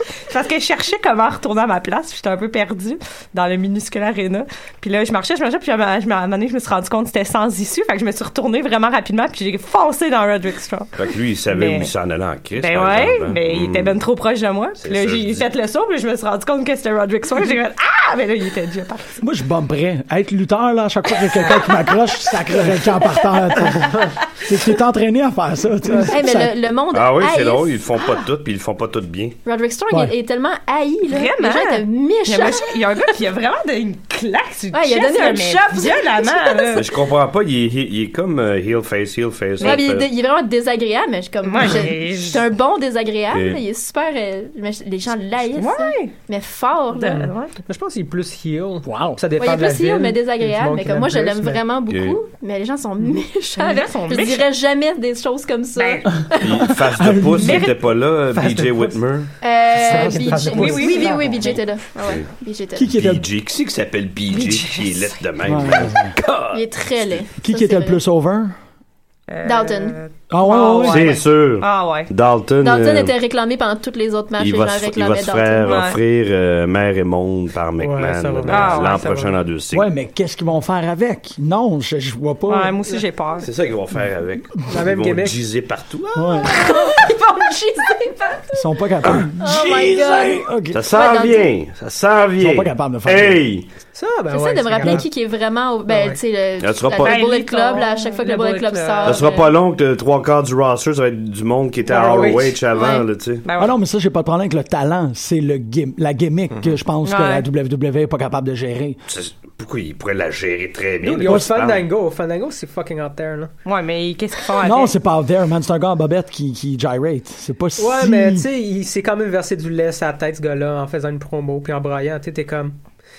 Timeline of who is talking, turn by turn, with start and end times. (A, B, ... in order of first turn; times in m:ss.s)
0:00.3-0:11.9 A
0:11.0-0:14.0 B
0:12.5-0:19.2 A
0:14.8-0:15.5 B
0:19.2-0:26.5 C
0:21.3-0:21.9 A
0:26.1-0:27.8 D
0:26.9-0:29.4 B
0:29.4-0:33.0 D
0:29.9-0:30.1 C
0:31.1-0:36.9 A
0:34.7-0:36.8 D
0:36.7-0:40.1 B
0:39.6-0:47.2 D
0:41.4-0:42.5 A
0:43.3-0:43.6 B
0:45.6-0:46.1 A
0:46.9-0:47.6 A
0:47.1-0:51.6 E
0:48.8-0:49.2 C
0:49.4-0:56.2 D
0:51.9-0:52.2 B
0:53.6-0:54.5 A
0:55.8-0:56.2 A
0:56.2-0:57.7 C
0:56.4-0:59.3 B
0:57.3-0:57.8 A
0:58.3-0:59.0 E
0:59.4-1:02.9 D
0:59.8-1:00.9 C
0:59.9-1:00.9 E
1:00.5-1:01.6 A
1:02.0-1:02.3 B
1:02.8-1:03.3 C
1:02.9-1:06.6 B
1:04.3-1:05.2 A
1:05.4-1:06.1 C
1:06.5-1:08.0 D
1:07.4-1:08.5 C
1:09.3-1:12.1 A
1:09.4-1:10.0 D
1:10.3-1:11.2 C
1:10.8-1:13.1 B
1:12.6-1:15.8 D
1:14.4-1:19.9 B
1:15.6-1:16.0 A
1:17.8-1:19.3 E
1:18.5-1:19.3 A
1:19.7-1:22.7 C
1:22.5-1:23.5 A
1:23.4-1:26.5 B
1:24.7-1:25.4 E
1:26.1-1:26.5 C
1:26.4-1:31.5 D
1:28.5-1:31.0 C
1:30.7-1:33.7 B
1:32.4-1:33.4 C
1:33.9-1:35.1 E
1:34.3-1:39.5 D
1:35.9-1:36.2 E
1:36.6-1:37.2 B
1:37.0-1:39.4 A
1:39.0-1:43.4 B
1:41.8-1:42.6 E
1:42.7-1:43.0 D
1:43.4-1:43.8 A
1:43.6-1:49.0 C
1:47.0-1:47.4 A
1:49.1-1:51.8 B
1:51.0-1:53.5 E
1:51.2-1:51.5 C
1:53.6-1:54.9 A
1:54.6-1:58.4 C
1:57.8-2:02.8 E